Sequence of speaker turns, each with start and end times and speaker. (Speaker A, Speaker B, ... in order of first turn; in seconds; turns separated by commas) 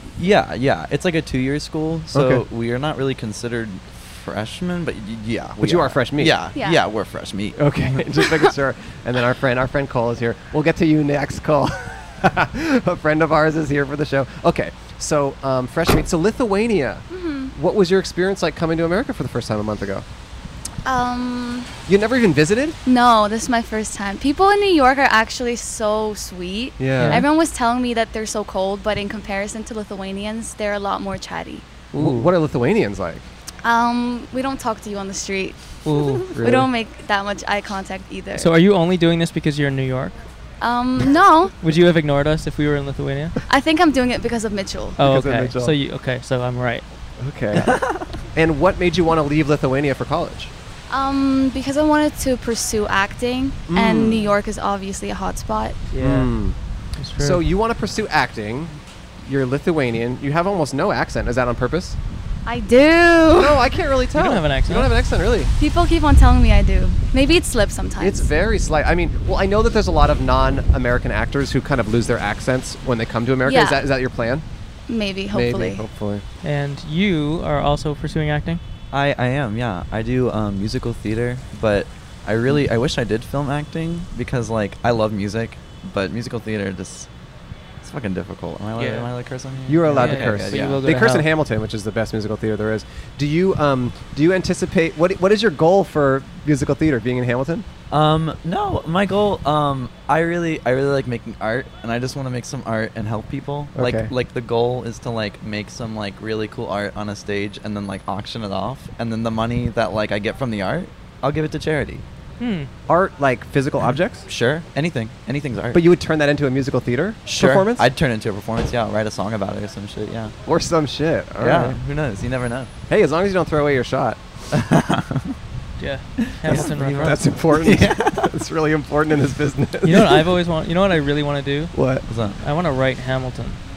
Speaker A: 0.2-7.6, Speaker B: 2.1-2.5, Speaker B: 5.6-6.4, Speaker C: 6.5-6.8, Speaker B: 7.6-20.1, Speaker C: 17.1-17.5, Speaker C: 20.9-21.7, Speaker B: 21.9-22.8, Speaker C: 22.9-31.7, Speaker B: 26.8-27.2, Speaker D: 27.0-27.2, Speaker D: 31.9-32.3, Speaker B: 31.9-33.3, Speaker C: 33.6-35.6, Speaker D: 35.9-36.2, Speaker B: 36.3-36.7, Speaker C: 36.4-38.5, Speaker D: 38.4-40.2, Speaker C: 40.6-41.5, Speaker D: 41.6-43.4, Speaker C: 43.5-45.0, Speaker D: 45.0-46.8, Speaker B: 45.0-45.8, Speaker B: 47.2-50.5, Speaker A: 47.5-48.1, Speaker C: 50.9-55.8, Speaker B: 53.7-54.4, Speaker D: 55.9-56.3, Speaker B: 56.0-56.6, Speaker D: 57.0-57.4, Speaker B: 57.2-62.0, Speaker C: 62.5-63.7, Speaker B: 63.4-65.5, Speaker D: 64.2-64.9, Speaker C: 65.6-68.3, Speaker B: 68.0-74.5, Speaker C: 73.4-73.8, Speaker C: 74.9-75.8, Speaker B: 75.3-76.2, Speaker D: 76.4-78.6, Speaker A: 78.9-87.1, Speaker A: 87.8-90.8, Speaker D: 88.8-89.1, Speaker B: 89.7-97.7, Speaker D: 89.9-91.3, Speaker A: 97.9-112.0, Speaker B: 103.8-104.1, Speaker D: 112.4-112.7, Speaker B: 112.9-114.3, Speaker A: 114.2-115.8, Speaker B: 115.7-117.9, Speaker A: 117.2-120.3, Speaker B: 120.5-121.8, Speaker A: 121.4-122.7, Speaker B: 122.9-124.2, Speaker A: 124.5-125.3, Speaker D: 125.8-127.2, Speaker A: 126.2-128.4, Speaker B: 126.5-130.3, Speaker D: 129.8-131.8, Speaker B: 131.7-132.1, Speaker A: 132.1-132.4, Speaker D: 132.4-133.6